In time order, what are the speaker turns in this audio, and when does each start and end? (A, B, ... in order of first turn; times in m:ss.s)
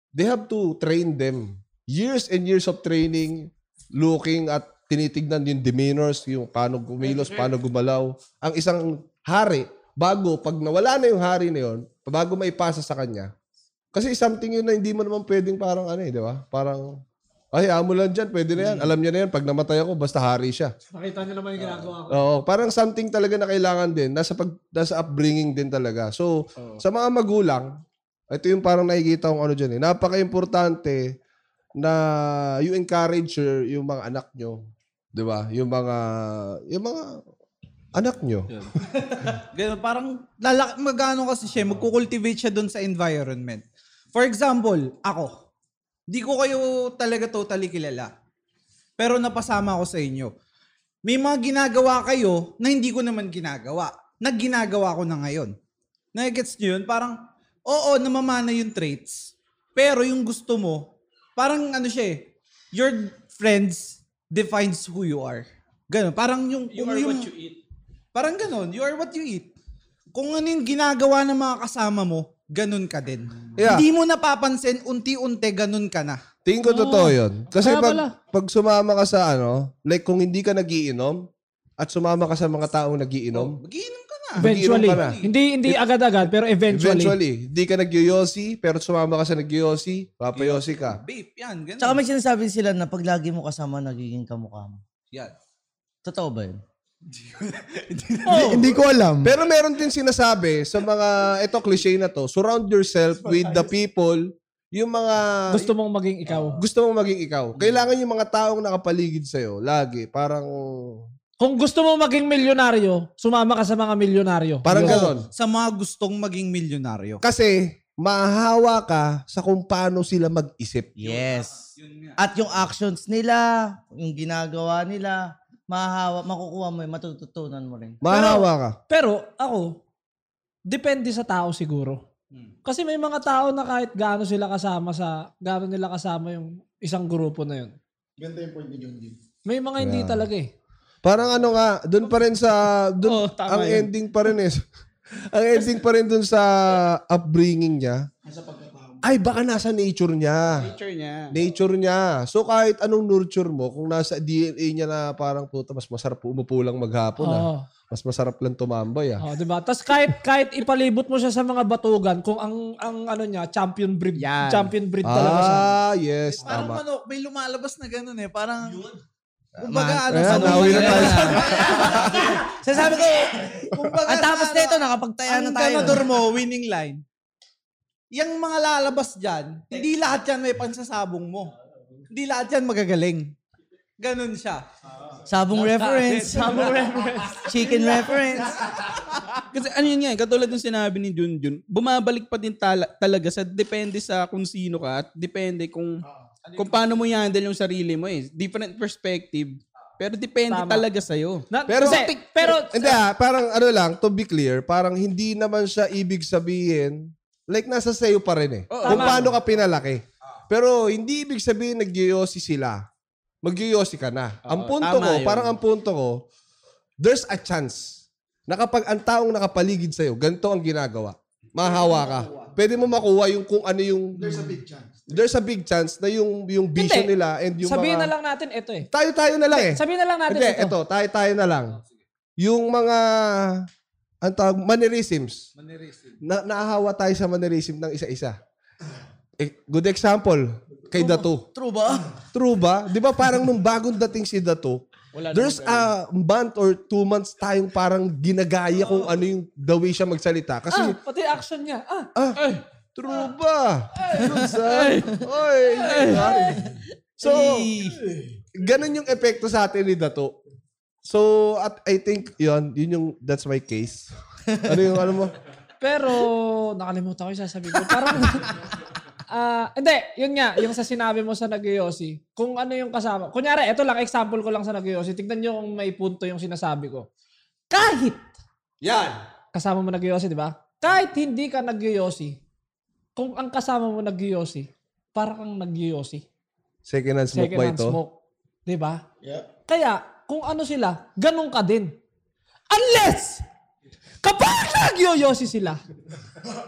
0:00.1-0:13.3 A
0:13.9-0:17.0 A
0:17.5-0:20.7 A
0:20.9-0:22.2 B
0:22.1-0:27.7 A
0:28.3-0:31.2 A
0:31.8-0:37.2 A
0:37.9-0:38.5 A
0:39.2-0:45.3 C
0:46.1-0:48.1 C
0:49.0-0:50.3 C
0:51.0-0:55.5 C
0:56.2-1:07.5 C
1:08.1-1:09.5 C
1:10.1-1:16.2 C
1:13.6-1:13.9 A
1:16.4-1:21.3 A
1:16.6-1:18.2 B
1:21.8-1:23.6 A
1:23.3-1:25.3 C
1:24.4-1:25.8 A
1:24.4-1:27.2 B
1:26.7-1:31.0 A
1:30.3-1:32.0 C
1:31.8-1:34.8 D
1:36.0-1:36.6 D
1:37.1-1:38.8 C
1:38.3-1:38.6 B
1:38.3-1:39.3 E
1:39.2-1:45.7 A
1:45.5-1:46.6 B
1:46.6-1:51.0 A
1:51.4-1:55.1 B
1:54.6-1:55.3 A
1:54.7-1:57.2 C
1:57.2-2:01.0 A
2:01.0-2:08.0 D
2:01.0-2:02.2 C
2:08.0-2:08.8 A
2:08.1-2:09.8 B
2:10.7-2:12.0 B
2:12.6-2:17.8 B
2:18.2-2:19.2 E
2:19.5-2:20.5 B
2:19.8-2:20.3 A
2:21.0-2:28.1 A
2:23.0-2:23.9 F
2:28.3-2:29.0 E
2:29.0-2:30.7 A
2:30.5-2:31.3 F
2:31.3-2:39.2 A
2:37.2-2:37.6 B
2:39.2-2:45.7 B
2:45.0-2:46.8 A
2:46.4-2:49.0 C
2:49.6-2:56.1 D
2:49.6-2:52.5 C
2:50.1-2:51.7 A
2:53.6-2:57.0 C
2:58.1-3:01.5 C
3:02.1-3:03.4 C
3:04.0-3:04.6 C
3:05.3-3:06.7 D
3:05.6-3:06.7 C
3:05.8-3:07.9 B
3:07.5-3:08.6 D
3:09.4-3:16.0 F
3:16.6-3:22.2 F
3:20.5-3:20.9 B
3:21.5-3:23.0 B
3:21.7-3:32.8 A
3:28.7-3:29.3 F
3:28.8-3:29.3 B
3:33.4-3:36.2 A
3:34.5-3:35.6 F
3:37.0-3:44.5 A
3:42.1-3:42.5 C
3:44.2-3:45.0 E
3:45.1-3:48.1 A
3:46.8-3:47.1 B
3:47.6-3:48.9 B
3:48.9-3:51.8 A
3:49.5-3:50.8 B
3:52.4-3:53.7 A
3:54.2-3:55.5 A
3:55.6-3:56.2 C
3:56.2-3:58.4 A
3:59.4-4:01.5 A
4:01.0-4:02.1 D
4:02.3-4:11.0 A
4:05.2-4:05.9 F
4:10.7-4:12.1 B
4:12.2-4:12.4 A
4:13.0-4:16.7 A
4:14.5-4:15.1 F
4:15.8-4:16.4 F
4:17.2-4:17.8 A
4:17.2-4:18.0 D
4:18.5-4:20.4 A
4:21.0-4:25.4 A
4:25.8-4:28.6 B
4:29.3-4:37.1 B
4:37.7-4:38.3 B
4:38.8-4:39.2 A
4:39.5-4:42.4 B
4:43.2-4:46.2 B
4:46.8-4:48.0 A
4:47.3-4:49.0 B
4:49.7-4:52.0 B
4:52.7-4:53.4 B
4:54.2-4:55.8 B